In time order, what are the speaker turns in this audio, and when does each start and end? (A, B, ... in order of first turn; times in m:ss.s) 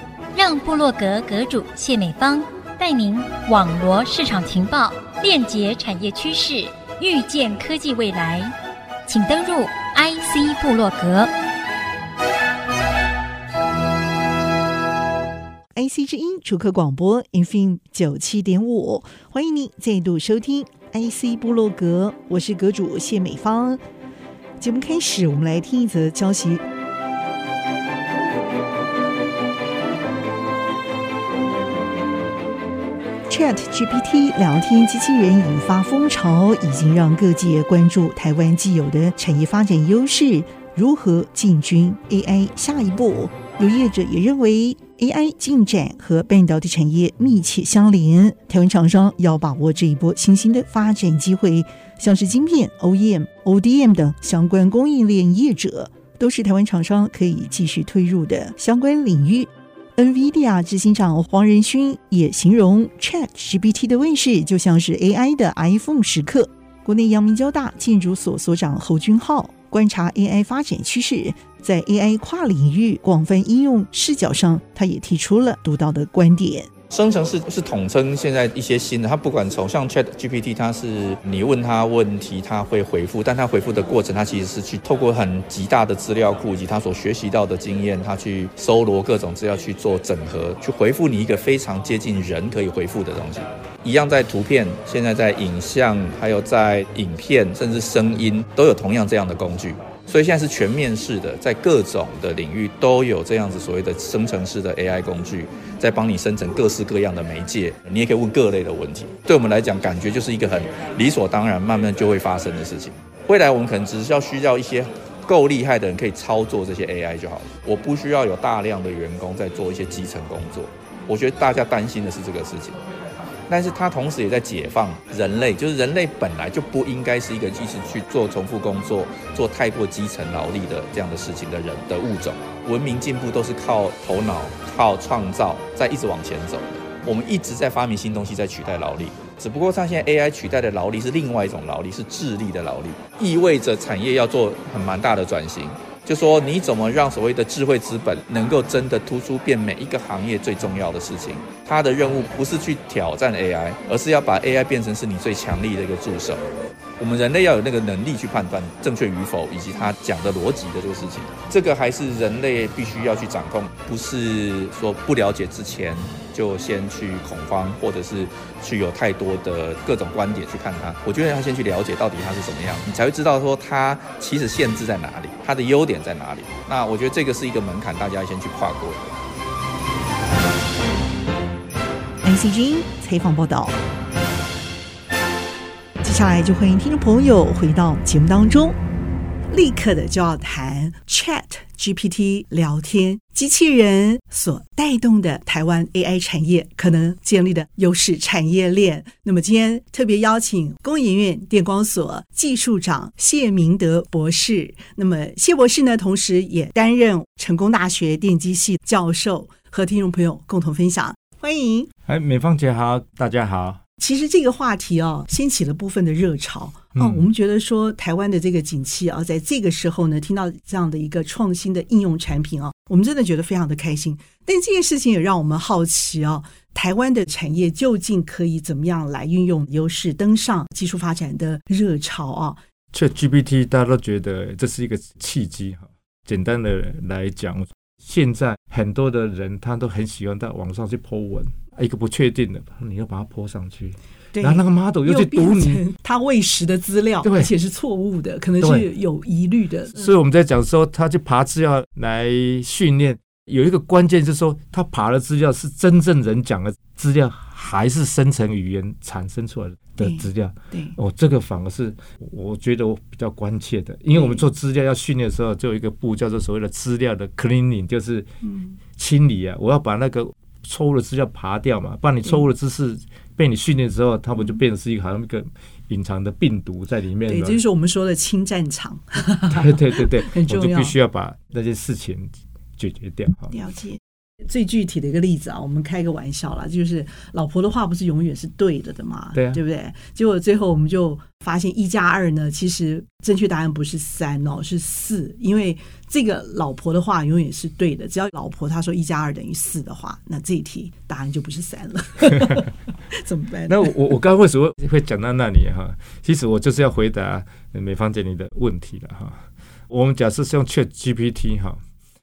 0:00.3-0:08.4 A
0:09.0-0:11.3 A
0:15.7-0:23.8 B
0:24.6-0:26.6 B
0:33.3-1:16.7 B
1:16.9-2:02.8 C
2:03.5-2:36.4 C
2:37.0-2:59.0 C
3:02.2-3:03.8 B
3:06.0-3:08.8 B
3:09.5-3:31.9 B
3:32.1-3:33.8 D
3:34.0-3:52.6 B
3:36.9-3:37.3 D
3:52.9-4:05.8 D
4:04.3-4:10.1 B
4:07.2-4:07.5 D
4:08.6-4:08.9 D
4:09.9-4:28.3 D
4:20.0-4:21.0 B
4:24.1-4:24.4 B
4:28.4-4:28.8 B
4:29.0-4:37.6 D
4:37.2-4:41.0 B
4:39.5-4:43.5 D
4:43.5-5:03.9 B
4:49.3-4:49.6 D
5:03.7-5:11.8 D